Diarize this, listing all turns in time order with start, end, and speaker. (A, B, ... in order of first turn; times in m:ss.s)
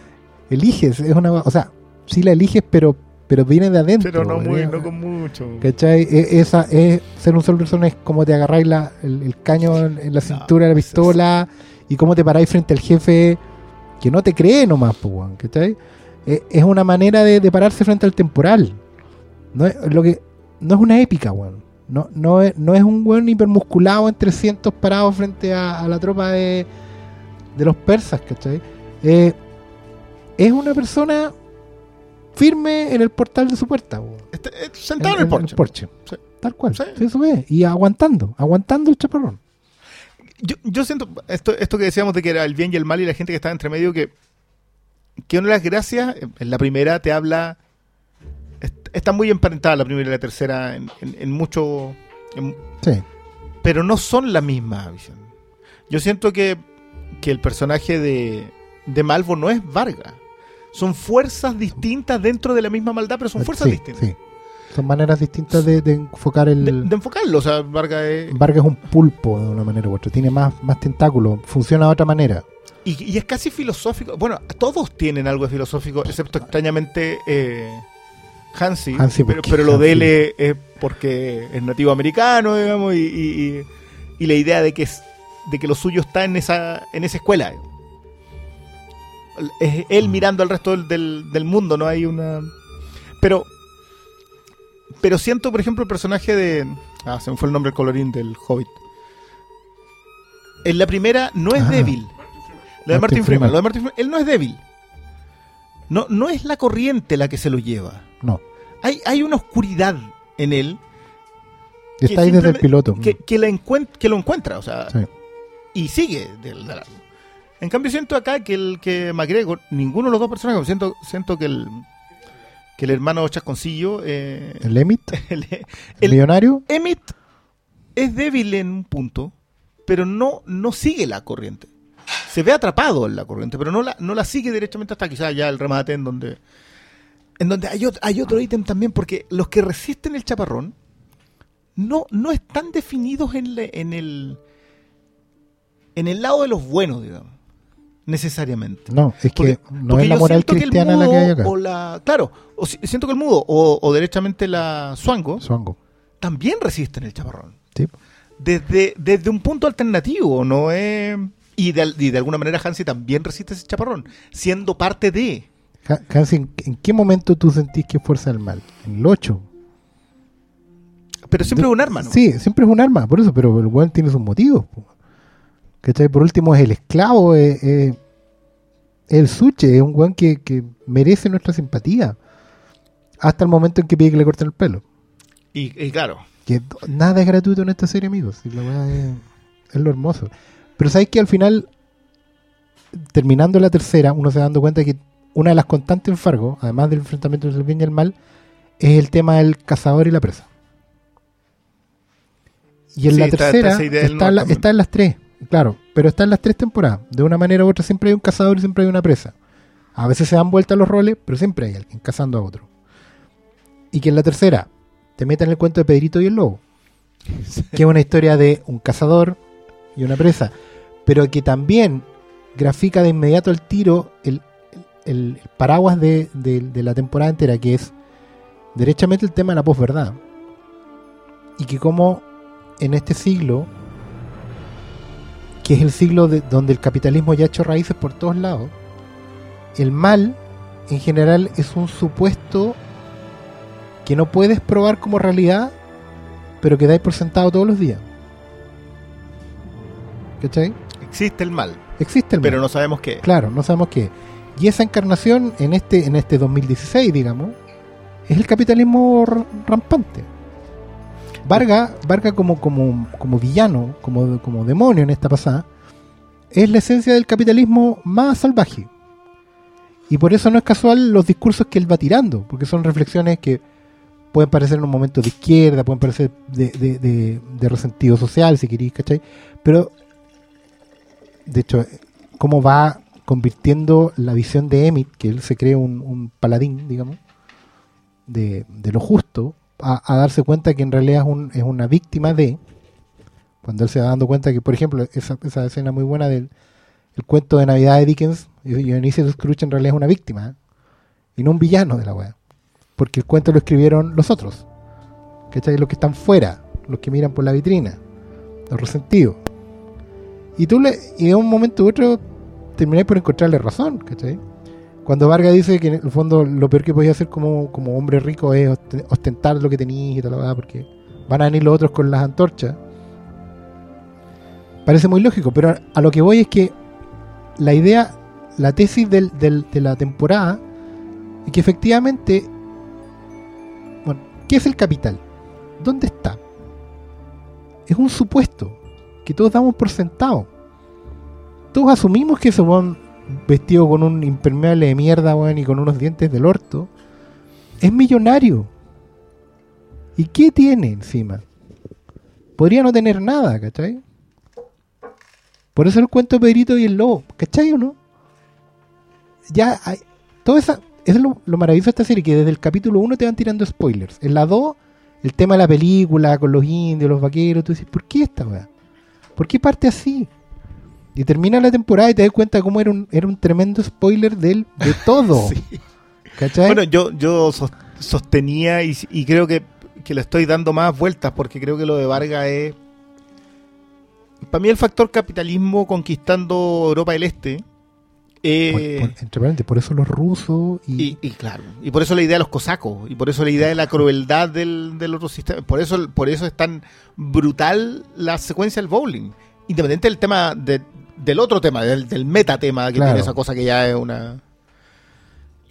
0:00.5-0:04.9 A
0:04.0-0:05.7 B
0:05.6-0:13.4 A
0:10.2-0:11.0 B
0:14.0-0:18.8 A
0:19.5-0:26.7 A
0:27.5-0:29.4 A
0:30.4-0:31.3 A
0:32.3-0:34.3 A
0:34.3-0:36.2 B
0:35.0-0:39.4 A
0:36.7-0:37.0 B
0:40.4-0:44.1 B
0:45.2-0:47.6 B
0:48.6-0:52.6 B
0:53.6-0:55.3 B
0:55.9-0:56.6 B
0:57.2-1:00.2 B
1:00.7-1:04.0 B
1:03.4-1:04.1 A
1:04.7-1:06.9 A
1:06.6-1:08.4 B
1:08.3-1:12.4 A
1:12.8-1:17.8 B
1:18.5-1:23.7 B
1:19.0-1:20.1 A
1:24.2-1:27.6 B
1:29.4-1:32.5 B
1:33.2-1:33.5 B
1:35.0-1:38.8 B
1:40.6-1:42.1 B
1:41.6-1:41.9 A
1:42.8-1:44.6 B
1:42.9-1:43.6 A
1:45.9-1:48.1 B
1:48.8-1:50.8 B
1:52.0-1:53.2 A
1:52.0-1:55.0 B
1:55.7-1:57.0 B
1:57.6-2:01.8 B
2:02.8-2:07.1 B
2:04.6-2:05.2 A
2:06.0-2:06.6 A
2:08.0-2:09.3 B
2:09.9-2:11.7 B
2:12.3-2:16.4 B
2:17.4-2:20.7 B
2:21.8-2:24.4 B
2:26.0-2:27.3 B
2:28.0-2:35.4 B
2:28.9-2:31.5 A
2:35.4-2:35.8 A
2:36.2-2:37.6 B
2:38.4-2:45.5 B
2:45.8-2:49.5 A
2:51.3-2:52.2 B
2:51.5-2:54.9 A
2:55.8-2:58.0 A
2:59.1-3:02.2 A
3:03.2-3:04.8 A
3:05.5-3:06.2 B
3:06.5-3:11.7 A
3:12.9-3:18.1 A
3:18.8-3:20.5 A
3:22.9-3:29.3 A
3:23.1-3:24.6 B
3:29.9-3:32.7 A
3:33.9-3:36.6 A
3:37.4-3:37.7 B
3:37.7-3:39.4 A
3:40.0-3:40.5 A
3:41.0-3:47.9 A
3:48.7-3:50.2 A
3:51.6-3:52.2 A
3:52.8-3:53.7 A
3:55.6-3:58.7 A
3:59.8-4:02.8 A
4:04.0-4:05.7 A
4:06.6-4:08.0 A
4:10.4-4:10.8 A
4:11.0-4:11.8 B
4:12.0-4:12.6 A
4:12.4-4:13.2 B
4:13.2-4:17.6 A
4:18.3-4:20.3 A
4:21.4-4:25.7 A
4:26.5-4:28.9 A
4:30.1-4:33.6 A
4:34.3-4:39.9 A
4:41.4-4:47.2 A
4:48.3-4:52.6 A
4:53.6-4:56.5 A
4:57.2-5:00.5 A
5:01.4-5:02.3 A
5:03.0-5:04.6 A
5:05.5-5:08.0 A
5:08.7-5:09.4 A
5:10.6-5:12.2 A
5:12.8-5:14.4 A
5:15.0-5:22.8 A
5:24.8-5:26.7 A
5:27.6-5:30.6 A
5:31.4-5:32.5 A
5:34.0-5:35.2 A
5:35.8-5:36.4 A
5:37.9-5:40.5 A
5:41.7-5:46.9 A
5:47.8-5:48.7 A
5:50.2-5:51.4 A
5:52.6-5:54.0 A
5:55.7-5:58.0 A
5:59.5-6:08.7 A
6:09.4-6:10.3 A
6:11.1-6:15.6 A
6:14.9-6:15.8 B
6:16.4-6:16.8 A
6:16.6-6:22.8 B
6:24.4-6:27.6 B
6:28.4-6:29.1 B
6:28.7-6:31.2 A
6:31.0-6:44.4 B
6:42.9-6:43.4 A